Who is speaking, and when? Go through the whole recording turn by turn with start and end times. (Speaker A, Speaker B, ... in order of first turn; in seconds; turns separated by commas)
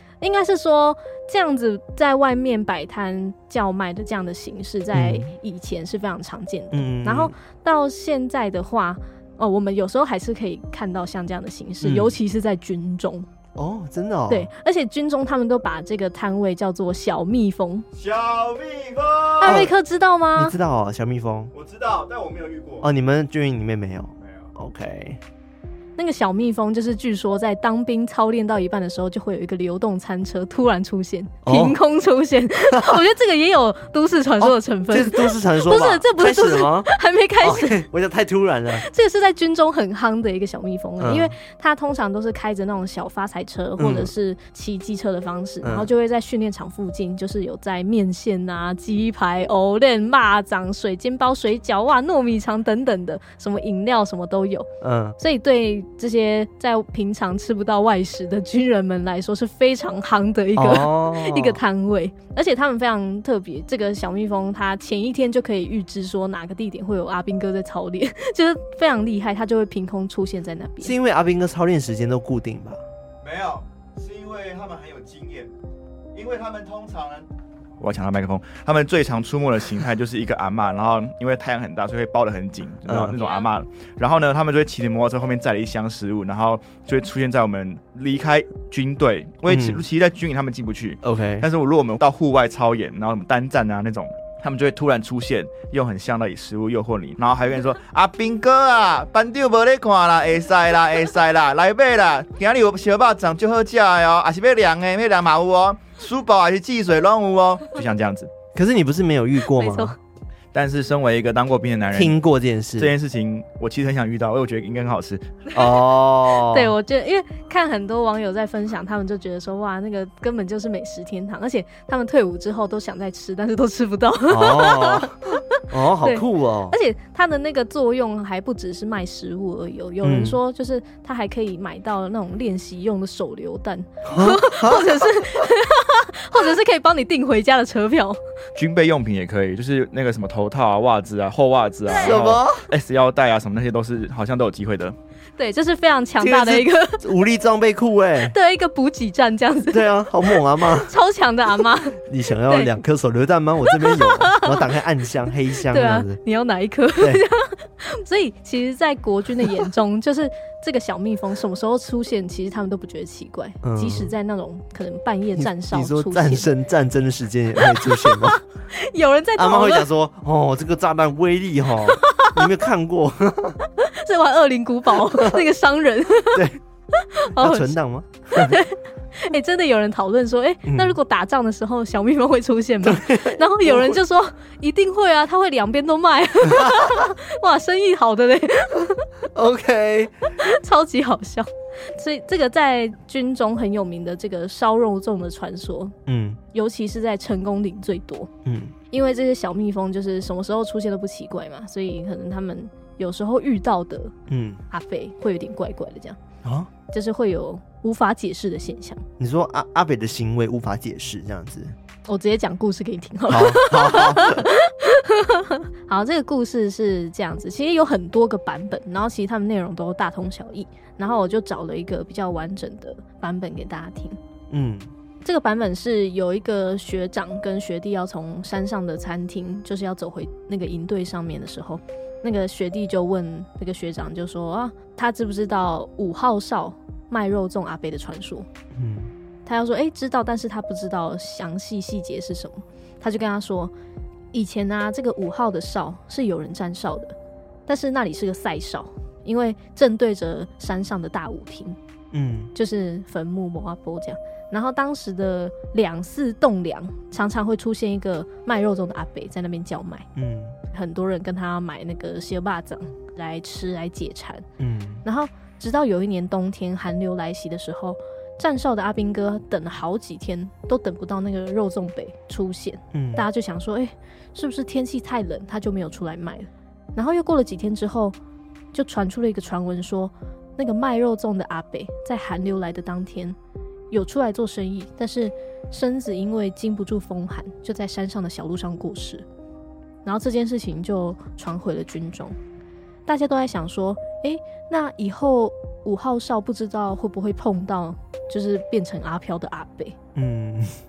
Speaker A: 0.2-13.3, Speaker B: 4.9-5.3, Speaker B: 6.7-7.3, Speaker B: 11.8-12.2, Speaker B: 13.6-14.5, Speaker A: 14.3-17.9, Speaker C: 17.9-19.6, Speaker A: 19.4-20.6, Speaker B: 19.4-19.7, Speaker B: 20.3-21.5, Speaker C: 21.5-22.9, Speaker B: 22.8-25.2, Speaker A: 26.0-37.8, Speaker B: 31.4-31.8, Speaker B: 32.7-33.0, Speaker B: 34.4-36.9, Speaker B: 37.4-38.9, Speaker A: 38.7-54.7, Speaker B: 41.0-41.3, Speaker B: 43.8-44.1, Speaker B: 45.6-45.9, Speaker B: 54.8-55.2, Speaker A: 55.2-70.9, Speaker B: 60.6-61.6, Speaker B: 70.8-72.8, Speaker C: 73.2-75.5, Speaker C: 76.1-77.3, Speaker C: 77.8-108.3, Speaker B: 82.9-83.2, Speaker B: 89.5-89.8, Speaker B: 91.0-91.5, Speaker B: 108.5-110.0, Speaker A: 109.5-110.0, Speaker C: 110.5-112.2, Speaker B: 111.9-113.0, Speaker C: 112.8-115.4, Speaker B: 115.5-116.8, Speaker A: 116.4-138.2, Speaker B: 124.3-126.8, Speaker B: 130.0-130.4, Speaker B: 134.1-135.5, Speaker C: 138.6-144.9, Speaker A: 141.9-142.2, Speaker B: 142.0-142.7, Speaker A: 145.4-147.0, Speaker B: 146.2-148.3, Speaker A: 148.2-152.8, Speaker B: 149.7-150.9, Speaker B: 152.1-156.2, Speaker A: 153.7-154.7, Speaker A: 155.6-166.5, Speaker B: 157.0-157.2, Speaker B: 163.6-164.1, Speaker B: 165.4-168.4, Speaker A: 167.7-169.9, Speaker B: 169.4-173.6, Speaker A: 171.9-172.5, Speaker A: 173.7-177.8, Speaker B: 175.0-175.4, Speaker B: 176.3-176.6, Speaker B: 177.3-178.6, Speaker A: 178.3-189.1, Speaker B: 180.7-181.0, Speaker B: 182.8-184.0, Speaker B: 186.5-187.0, Speaker B: 189.3-190.2, Speaker A: 190.4-196.0, Speaker B: 196.1-196.4, Speaker A: 196.5-198.3, Speaker B: 198.4-198.7, Speaker A: 198.9-204.1, Speaker B: 204.3-204.6, Speaker A: 204.7-206.2, Speaker B: 206.4-206.7, Speaker A: 206.9-209.0, Speaker B: 209.2-211.8, Speaker A: 212.1-224.2, Speaker B: 213.3-214.5, Speaker B: 224.5-224.9, Speaker A: 225.2-238.5, Speaker B: 238.7-239.1, Speaker A: 239.5-243.7, Speaker A: 244.3-247.2, Speaker A: 247.7-251.8, Speaker B: 252.1-252.5, Speaker A: 252.6-260.1, Speaker B: 260.2-260.6, Speaker A: 260.7-264.4, Speaker B: 264.6-265.0, Speaker A: 265.0-278.2, Speaker B: 272.9-273.3, Speaker A: 278.7-283.4, Speaker A: 283.9-289.2, Speaker A: 290.1-292.4, Speaker A: 293.1-300.0, Speaker B: 300.1-300.8